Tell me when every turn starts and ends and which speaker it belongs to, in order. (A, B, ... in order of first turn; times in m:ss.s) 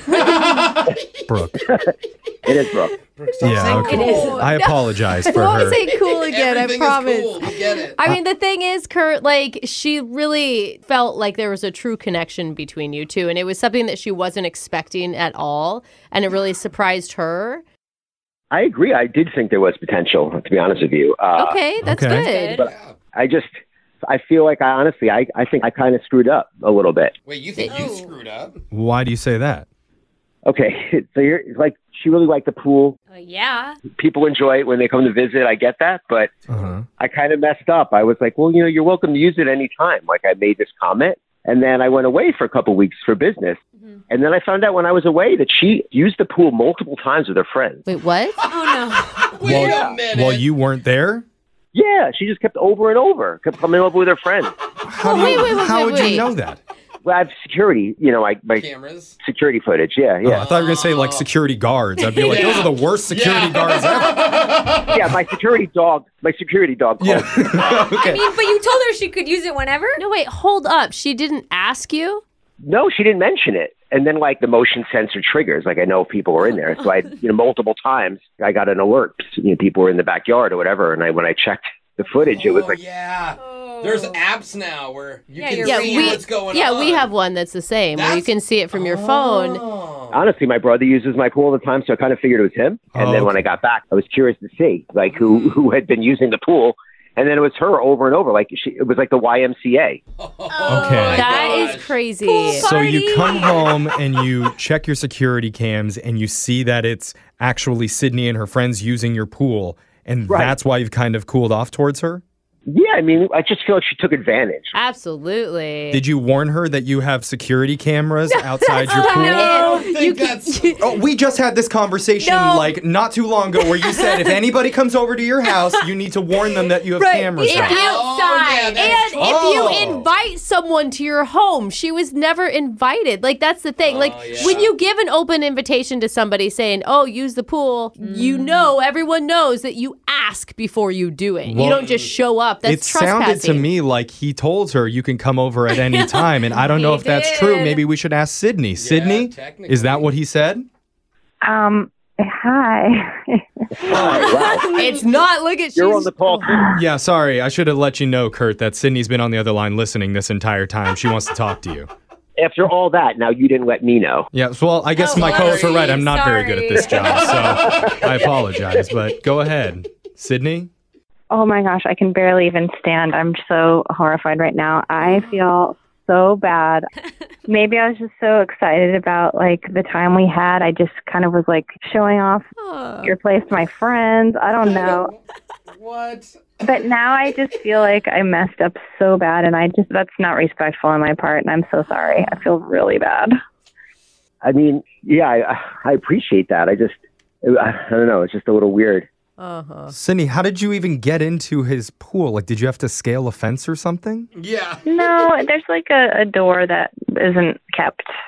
0:00.1-0:01.0 A
0:01.3-0:01.7 B
0:01.6-0:01.9 C
0:02.4-0:03.7 C
0:03.2-0:04.5 A
0:03.4-0:05.8 B
0:03.6-0:04.6 D
0:03.7-0:17.6 E
0:06.0-0:08.0 A
0:18.5-0:21.6 C
0:21.4-0:22.6 E
0:21.8-0:22.3 B
0:22.1-0:22.7 D
0:22.5-0:23.5 C
0:22.6-0:22.9 A
0:24.1-0:27.1 C
0:27.2-0:28.6 A
0:27.6-0:28.1 D
0:28.7-0:29.7 B
0:30.4-0:33.0 C
0:33.1-0:33.8 D
0:33.9-0:36.3 C
0:36.5-0:36.8 B
0:37.0-0:43.6 C
0:44.1-0:47.8 C
0:47.8-0:48.4 E
0:48.5-0:49.3 D
0:48.5-0:50.5 A
0:49.4-0:50.0 C
0:49.4-0:51.2 B
0:51.7-0:54.5 C
0:54.8-0:56.6 B
0:55.0-0:56.3 E
0:55.1-0:55.4 D
0:57.0-0:58.7 C
0:58.5-0:59.2 A
0:59.2-1:00.5 C
1:00.2-1:04.2 B
1:00.3-1:01.3 A
1:02.0-1:02.5 D
1:02.2-1:05.2 A
1:04.9-1:08.0 C
1:07.0-1:08.2 B
1:07.6-1:10.0 D
1:10.0-1:12.2 E
1:12.6-1:22.8 C
1:22.1-1:27.1 A
1:23.4-1:24.2 D
1:25.4-1:26.2 D
1:25.6-1:29.6 E
1:27.9-1:30.2 A
1:30.1-1:40.0 C
1:32.9-1:33.5 B
1:35.1-1:35.6 A
1:40.2-1:42.0 A
1:40.5-1:41.7 D
1:40.7-1:41.3 B
1:41.1-1:42.7 E
1:42.2-1:44.2 D
1:42.5-1:52.2 B
1:50.3-1:50.6 C
1:52.7-1:54.7 C
1:54.8-1:56.0 E
1:55.9-1:59.5 B
1:58.3-2:00.7 D
1:59.0-2:00.8 A
1:59.1-2:00.8 E
2:00.8-2:07.8 B
2:02.2-2:02.8 D
2:03.5-2:04.4 D
2:05.4-2:09.0 D
2:07.5-2:08.1 E
2:07.6-2:10.0 A
2:08.7-2:23.7 E
2:09.2-2:10.1 B
2:13.8-2:14.7 A
2:18.0-2:18.8 D
2:21.4-2:21.8 B
2:21.5-2:22.1 A
2:22.6-2:30.6 B
2:25.7-2:27.8 D
2:28.8-2:30.1 A
2:31.4-2:34.6 F
2:33.9-2:34.7 C
2:33.9-2:34.2 B
2:34.6-2:36.7 E
2:35.8-2:36.8 C
2:36.7-2:41.9 B
2:42.4-2:44.3 C
2:44.3-2:50.7 B
2:45.0-2:47.6 D
2:47.1-2:48.0 A
2:51.3-2:56.9 F
2:57.5-3:02.5 F
3:02.6-3:03.1 E
3:03.0-3:05.1 F
3:04.6-3:05.1 A
3:05.7-3:06.4 A
3:06.6-3:13.3 F
3:14.4-3:19.1 C
3:19.4-3:20.0 E
3:19.9-3:24.3 B
3:24.4-3:24.9 A
3:24.9-3:28.1 F